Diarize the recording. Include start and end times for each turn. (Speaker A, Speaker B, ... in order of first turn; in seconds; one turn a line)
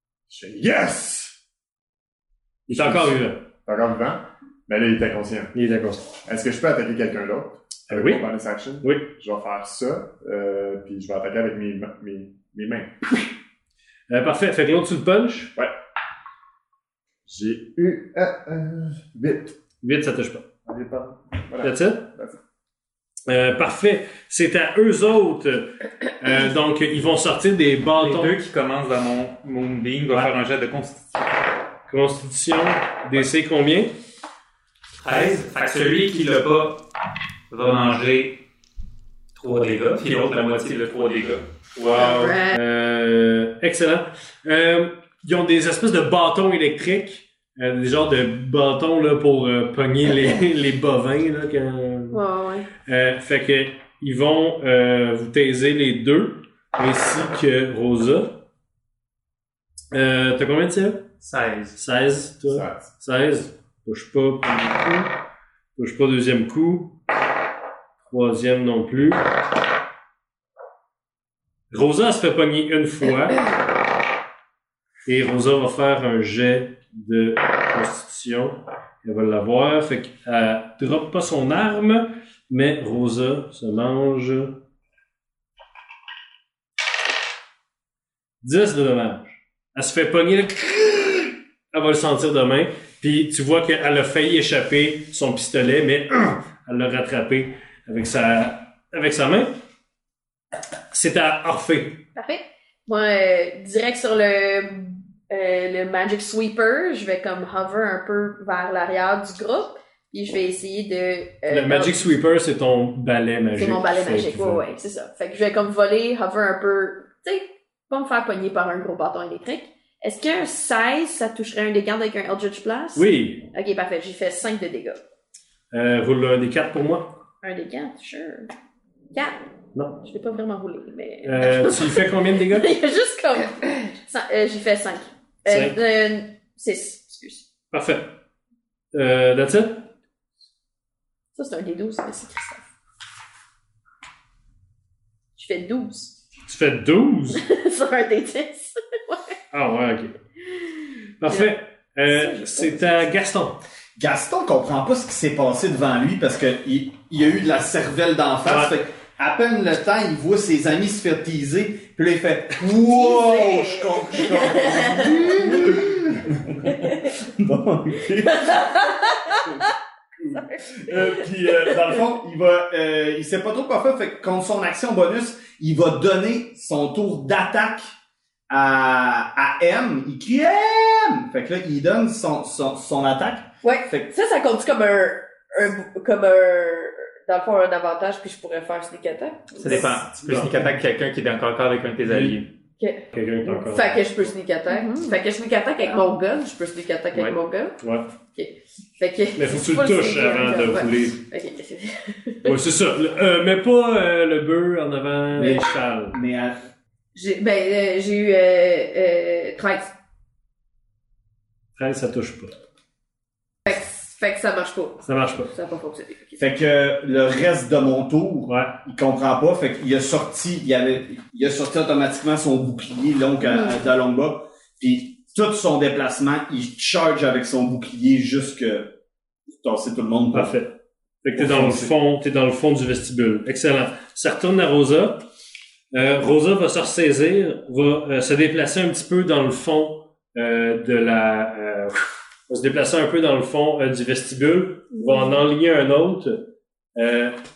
Speaker A: 0.3-1.4
Speaker A: 2.7-5.5
Speaker B: 2.7-3.4
Speaker B: 5.5-6.0
Speaker A: 6.2-12.9
Speaker B: 7.9-8.3
Speaker B: 8.8-9.1
Speaker B: 14.1-15.5
Speaker A: 17.2-19.6
Speaker B: 19.8-20.4
Speaker A: 20.6-22.4
Speaker B: 21.6-22.1
Speaker B: 23.3-28.3
Speaker C: 28.0-31.1
Speaker B: 31.9-33.9
Speaker C: 35.0-36.8
Speaker C: 37.5-38.4
Speaker C: 39.3-42.4
Speaker D: 42.0-42.6
Speaker B: 42.5-52.2
Speaker D: 52.1-52.7
Speaker B: 52.8-58.3
Speaker B: 59.9-61.0
Speaker C: 61.2-61.8
Speaker B: 61.8-65.1
Speaker A: 62.5-62.9
Speaker B: 65.8-67.0
Speaker B: 68.0-69.2
Speaker B: 71.7-73.5
Speaker B: 75.0-84.6
Speaker B: 88.4-99.5
Speaker B: 100.9-102.0
Speaker D: 102.2-112.0
Speaker B: 111.5-114.6
Speaker D: 113.5-125.0
Speaker B: 122.9-123.5
Speaker B: 125.7-127.1
Speaker D: 127.4-128.5
Speaker B: 129.7-130.0
Speaker D: 130.0-137.5
Speaker B: 131.2-132.7
Speaker B: 135.5-135.8
Speaker B: 137.7-138.1
Speaker B: 138.9-139.8
Speaker D: 141.3-142.6
Speaker D: 145.3-146.1
Speaker B: 146.4-147.4
Speaker D: 147.3-149.4
Speaker B: 149.5-150.2
Speaker B: 151.2-153.6
Speaker D: 152.1-152.9
Speaker E: 154.0-168.9
Speaker B: 158.4-158.7
Speaker D: 164.2-165.3
Speaker E: 170.2-177.9
Speaker E: 178.5-184.0
Speaker F: 183.6-189.8
Speaker C: 189.6-192.5
Speaker B: 190.2-190.5
Speaker B: 192.1-192.4
Speaker F: 192.8-197.8
Speaker B: 193.1-194.0
Speaker D: 194.7-195.2
Speaker B: 197.8-198.1
Speaker F: 198.3-202.1
Speaker B: 199.3-201.2
Speaker B: 202.4-206.2
Speaker E: 205.3-206.7
Speaker F: 207.1-209.9
Speaker B: 211.8-212.5
Speaker F: 213.7-216.4
Speaker B: 215.0-215.5
Speaker E: 216.4-228.9
Speaker B: 218.5-218.8
Speaker E: 229.5-230.5
Speaker B: 230.3-235.2
Speaker E: 231.3-231.9
Speaker B: 235.9-246.4
Speaker B: 246.9-247.4